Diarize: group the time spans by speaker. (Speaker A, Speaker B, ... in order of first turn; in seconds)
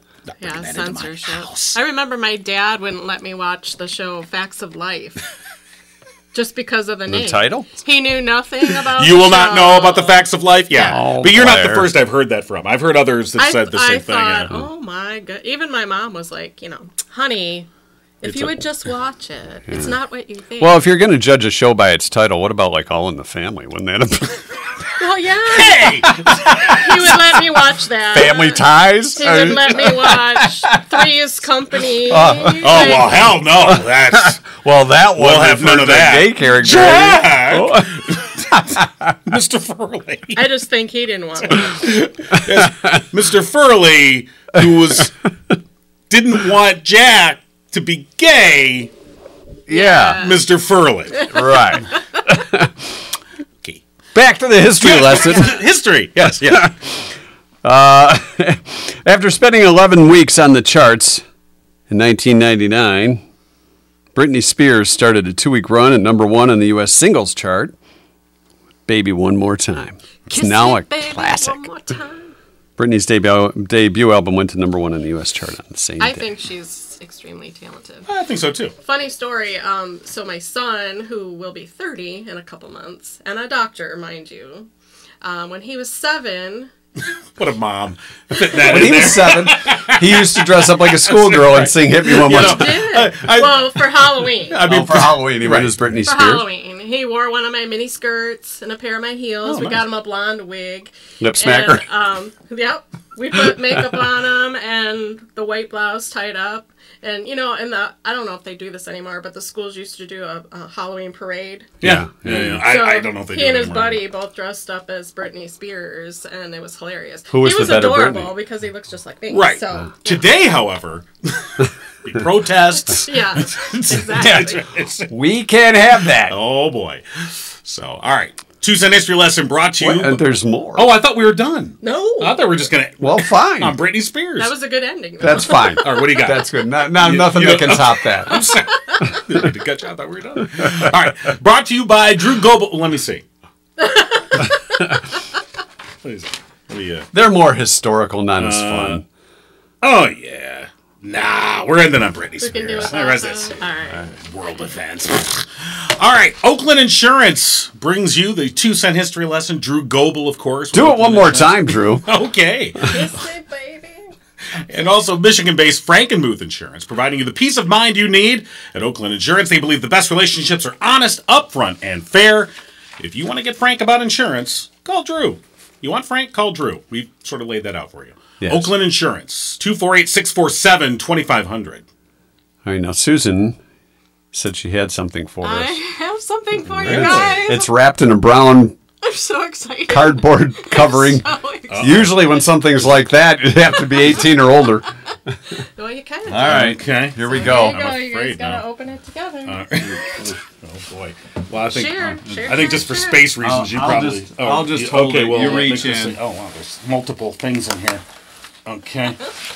Speaker A: 0.4-1.8, 8.9-14.6, 25.5-26.9, 32.6-34.4, 35.1-40.4, 41.5-45.2, 46.1-48.9, 50.2-51.8, 54.8-56.7, 78.1-78.7, 87.4-95.8, 99.5-99.8, 111.8-114.0, 119.3-125.1, 126.1-134.5, 135.3-143.2, 146.0-147.1, 148.4-149.0, 149.8-163.1, 164.6-181.8, 186.8-187.5, 191.7-192.2, 196.4-198.6, 199.5-208.0, 208.7-209.3
Speaker B: 0.4-5.2, 6.3-10.2, 13.4-17.7, 18.2-20.8, 25.0-33.3, 40.3-41.8, 49.7-50.5, 70.3-72.3, 76.0-78.1, 78.8-84.7, 85.2-86.7, 92.2-94.6, 96.0-111.7, 112.6-120.3, 123.0-124.7, 131.8-132.4, 134.4-136.0, 138.3-139.0, 143.8-144.8, 152.4-154.1, 162.8-164.1, 185.4-187.7, 189.0-192.1, 195.8-200.0, 201.7-203.3
Speaker C: 7.1-7.7, 10.7-11.9, 20.6-24.5, 28.1-31.1, 32.0-39.1, 42.3-43.0, 49.7-50.2, 51.3-53.0, 54.1-55.6, 56.2-56.8, 57.6-61.2, 61.9-63.2, 64.2-67.7, 68.9-71.6, 72.8-76.3, 88.5-92.8, 94.6-96.5, 101.2-101.8, 111.8-112.7, 117.3-118.3, 124.2-124.6, 125.1-126.4, 129.8-130.9, 133.0-133.8, 135.2-138.5, 147.1-149.0, 160.7-162.1, 178.4-178.7, 182.7-183.6, 184.3-185.8, 186.8-188.8, 189.9-191.2, 191.8-195.3, 196.3-197.9, 203.4-206.2